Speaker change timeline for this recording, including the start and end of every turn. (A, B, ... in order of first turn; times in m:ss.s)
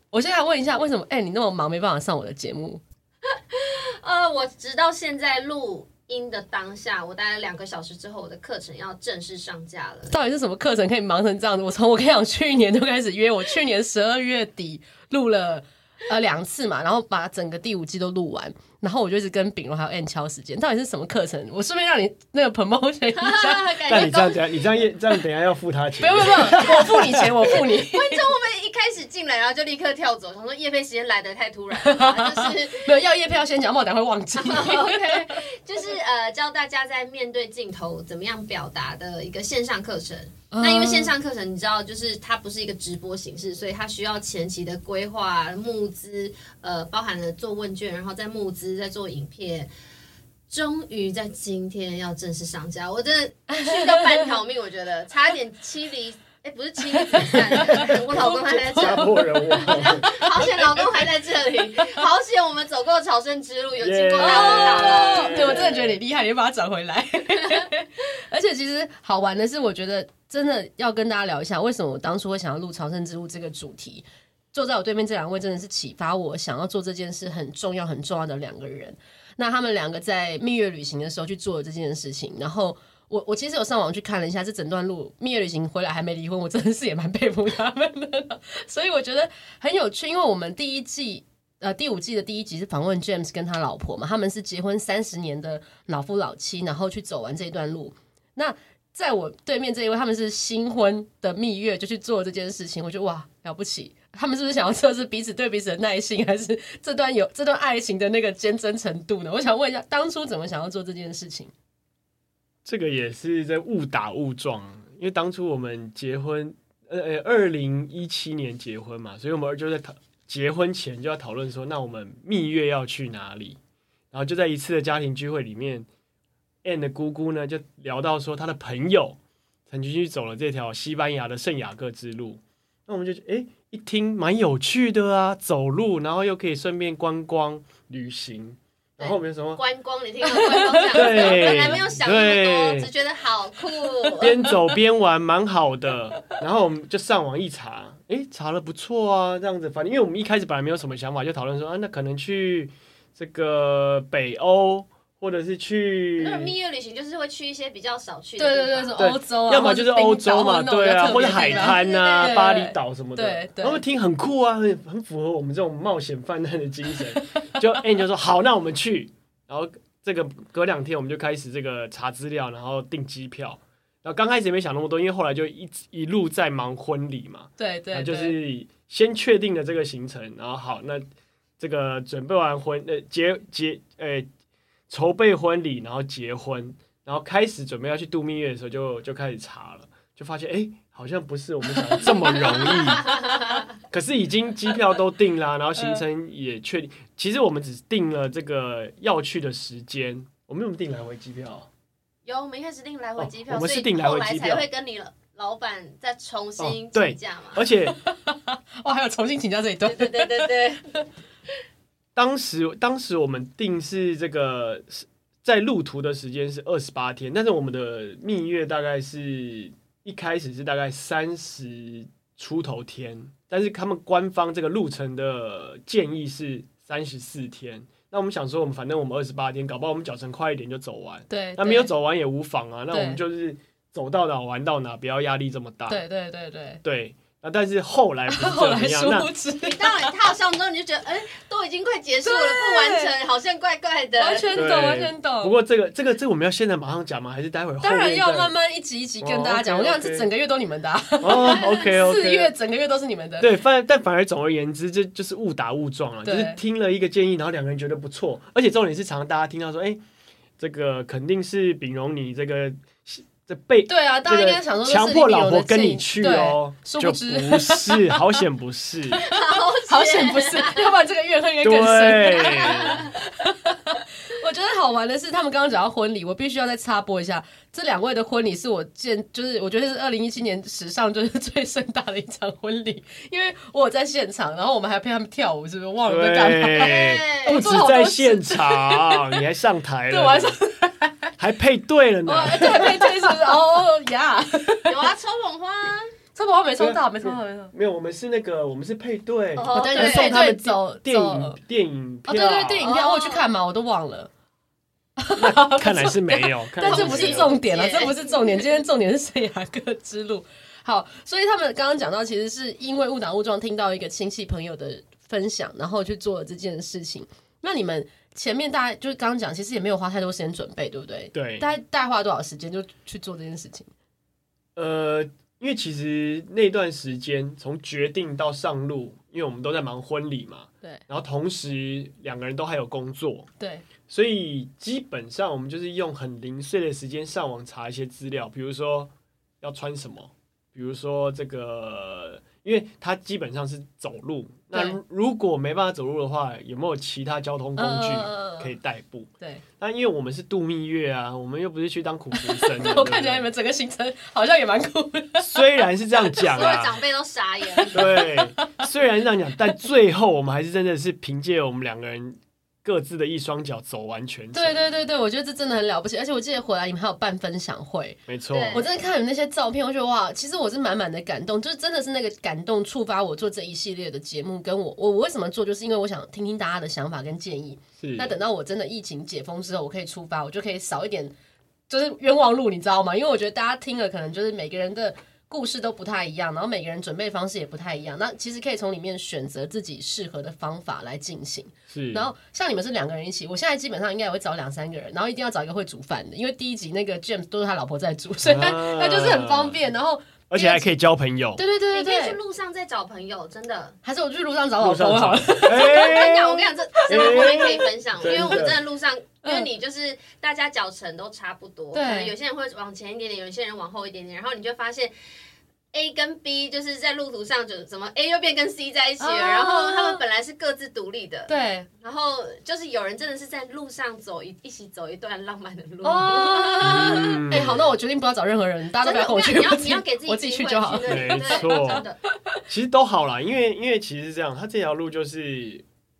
0:00.1-0:02.8 A
0:03.5-0:10.2 B
0:10.1-0:23.7 A
0:23.1-0:24.4 B
0:23.9-0:27.0 C
0:26.0-0:28.2 A
0:27.5-0:33.0 B
0:31.7-0:35.3 A
0:34.4-0:49.7 B
0:40.5-0:41.1 A
0:50.5-1:05.8 B
0:53.5-0:54.3 A
0:57.0-1:01.0 A
0:57.8-1:00.5 C
1:03.8-1:06.0 C
1:04.2-1:51.5 A
1:52.6-2:03.6 C
2:04.1-2:05.9 C
2:06.6-2:09.2 C
2:09.7-2:19.6 C
2:19.0-2:24.3 B
2:20.5-2:21.6 A
2:20.9-2:22.9 C
2:24.2-2:36.5 C
2:36.2-2:39.2 B
2:38.4-2:43.8 A
2:39.0-3:01.0 C
2:41.3-2:42.4 B
2:57.6-2:58.4 A
3:01.6-3:04.3 C
3:04.9-3:13.1 C
3:11.7-3:13.2 A
3:13.1-3:13.4 B
3:13.9-3:21.7 C
3:22.2-3:27.6 B
3:23.2-3:24.7 C
3:26.6-3:28.0 C
3:27.8-3:30.6 A
3:29.8-3:30.8 B
3:32.2-3:56.0 C
3:51.3-3:51.9 A
3:52.9-3:53.2 A
3:55.9-3:56.8 A
3:56.8-3:59.3 C
3:58.3-4:00.3 A
3:59.6-4:04.5 B
4:02.2-4:03.1 A
4:04.2-4:05.6 A
4:04.5-4:08.5 C
4:07.8-4:13.5 A
4:09.2-4:10.3 C
4:11.2-4:12.5 C
4:13.4-4:20.0 C
4:16.2-4:16.6 A
4:20.6-4:29.2 C
4:23.9-4:28.3 A
4:29.2-4:30.9 B
4:29.7-4:49.4 A
4:31.6-4:33.0 C
4:32.4-4:33.1 B
4:46.0-4:50.6 C
4:46.7-4:47.6 B
4:50.1-4:51.3 A
4:51.4-4:53.4 C
4:52.2-4:55.0 A
4:54.8-4:56.1 B
4:56.3-4:57.7 A
4:56.8-5:02.9 C
4:59.6-5:00.5 B
4:59.7-5:01.6 A
5:02.3-5:04.3 A
5:02.8-5:03.5 B
5:05.2-5:23.9 A
5:05.4-5:07.6 C
5:06.8-5:08.7 B
5:21.3-5:21.7 C
5:24.8-5:33.5 C
5:33.6-5:33.8 A
5:34.1-5:49.3 C
5:47.8-5:48.7 A
5:49.8-5:53.5 C
5:52.3-5:55.6 A
5:55.4-5:57.0 C
5:56.4-5:58.0 B
5:57.8-5:58.8 A
5:57.9-6:04.8 C
6:04.5-6:08.2 A
6:08.3-6:08.9 C
6:08.5-6:08.9 B
6:08.7-6:21.3 A
6:18.0-6:18.3 C
6:21.9-6:40.9 A
6:31.9-6:32.3 C
6:38.4-6:39.8 C
6:40.5-6:41.6 C
6:41.6-6:42.4 A
6:41.9-6:44.0 B
6:44.0-6:47.7 A
6:44.8-6:48.8 C
6:45.8-6:55.1 B
6:49.4-6:49.7 A
6:51.9-6:52.3 A
6:55.9-7:01.5 B
6:59.2-7:00.2 A
7:01.5-7:01.9 A
7:02.0-7:07.4 B
7:06.0-7:12.4 A
7:06.8-7:07.9 C
7:09.0-7:12.2 B
7:11.0-7:12.0 C
7:12.7-7:15.8 C